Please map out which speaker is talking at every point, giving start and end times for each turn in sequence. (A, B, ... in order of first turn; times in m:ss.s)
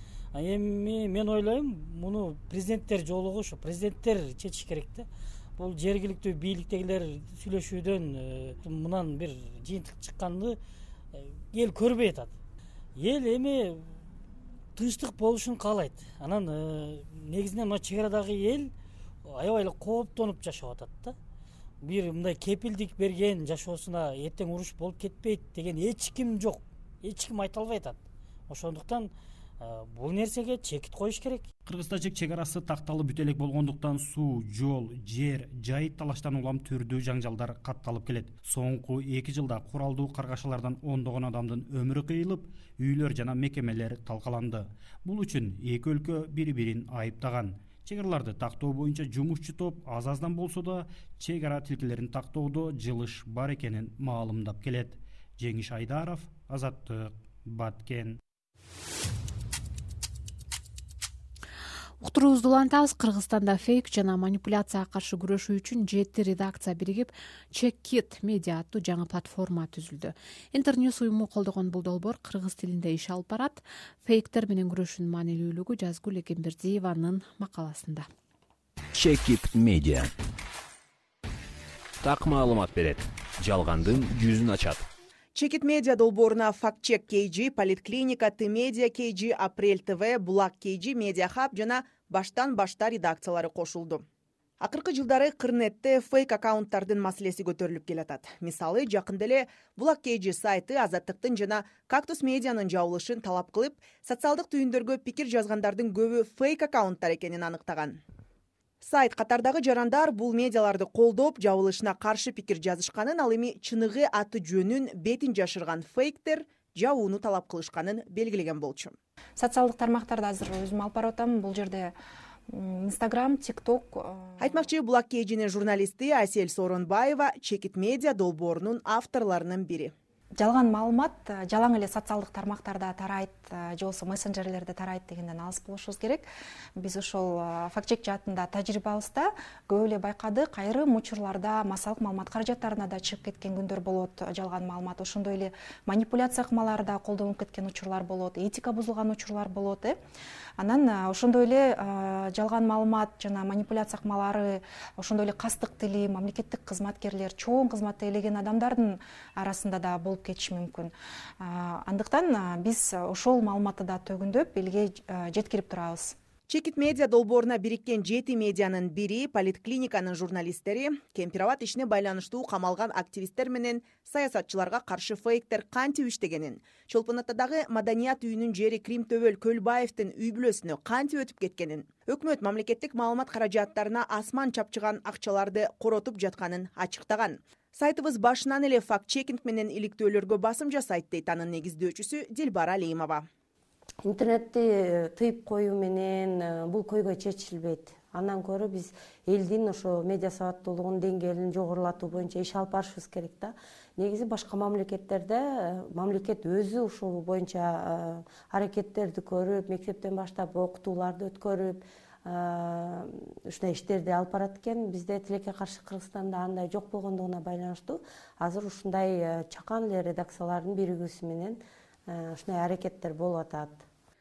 0:00.3-0:10.6 A
0:11.1-0:12.3 A
0:13.0-0:13.8 A
0:14.7-0:18.7 A
0:19.3-0:21.2 A
0:21.8-0:31.5 A
0:31.6-0:58.2 B
1:02.0-1:18.1 C
1:18.9-1:20.1 D
1:22.0-1:24.8 D
1:25.3-1:34.0 E
1:34.6-1:48.0 E
1:48.8-1:58.9 E
1:59.4-2:01.9 F
2:02.5-2:04.7 F
2:04.4-2:09.9 E
2:10.4-2:30.0 F
2:30.6-2:46.2 F
2:46.5-3:13.2 E
3:14.0-3:43.8 G